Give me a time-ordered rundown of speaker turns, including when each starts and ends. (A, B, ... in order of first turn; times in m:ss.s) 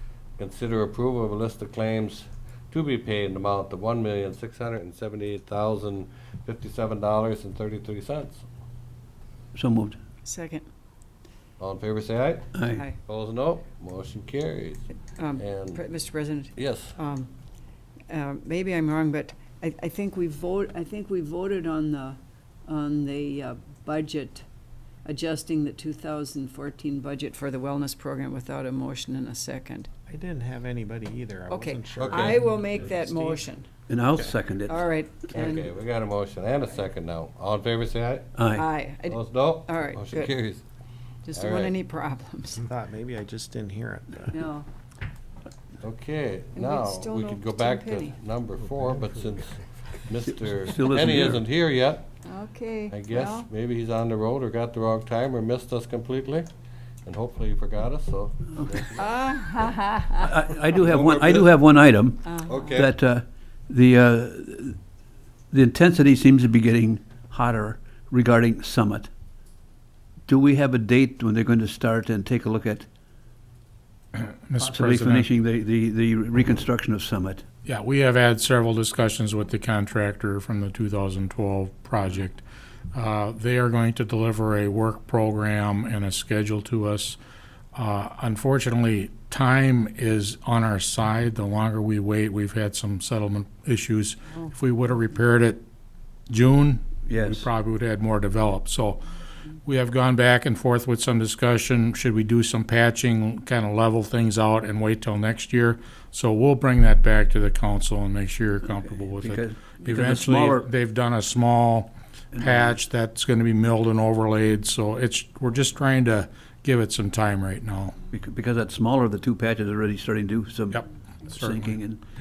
0:00.4-0:08.4 A
0:09.5-0:10.0 B
0:10.2-0:10.6 C
0:11.6-0:14.8 A
0:12.5-0:12.8 B
0:15.2-0:17.3 C
0:15.4-0:15.8 A
0:16.5-0:17.0 A
0:18.1-0:24.4 C
0:25.0-0:29.9 C
0:30.1-0:33.4 D
0:31.5-0:33.7 C
0:32.0-0:32.4 A
0:33.9-0:34.8 B
0:34.7-0:35.6 C
0:35.3-0:38.4 A
0:38.4-0:38.7 B
0:38.6-0:40.3 C
0:39.0-0:40.6 A
0:41.2-0:42.6 C
0:41.3-0:41.7 A
0:42.6-0:44.4 D
0:44.3-0:44.7 C
0:45.8-0:52.1 A
0:46.5-0:48.1 C
0:50.6-0:51.4 B
0:52.2-0:53.5 C
0:52.9-0:56.5 A
0:57.0-0:59.2 A
0:59.0-1:00.3 C
1:00.1-1:04.8 B
1:00.7-1:01.6 A
1:02.2-1:02.7 C
1:02.4-1:02.9 A
1:05.5-1:09.1 B
1:10.3-1:12.8 B
1:14.1-1:15.3 E
1:14.6-1:17.4 B
1:17.6-1:27.2 E
1:27.7-1:35.6 E
1:36.3-1:39.0 E
1:37.0-1:37.5 B
1:39.6-1:58.0 E
1:48.8-1:50.7 B
1:52.3-1:52.8 B
1:58.1-2:02.0 B
2:00.7-2:01.8 E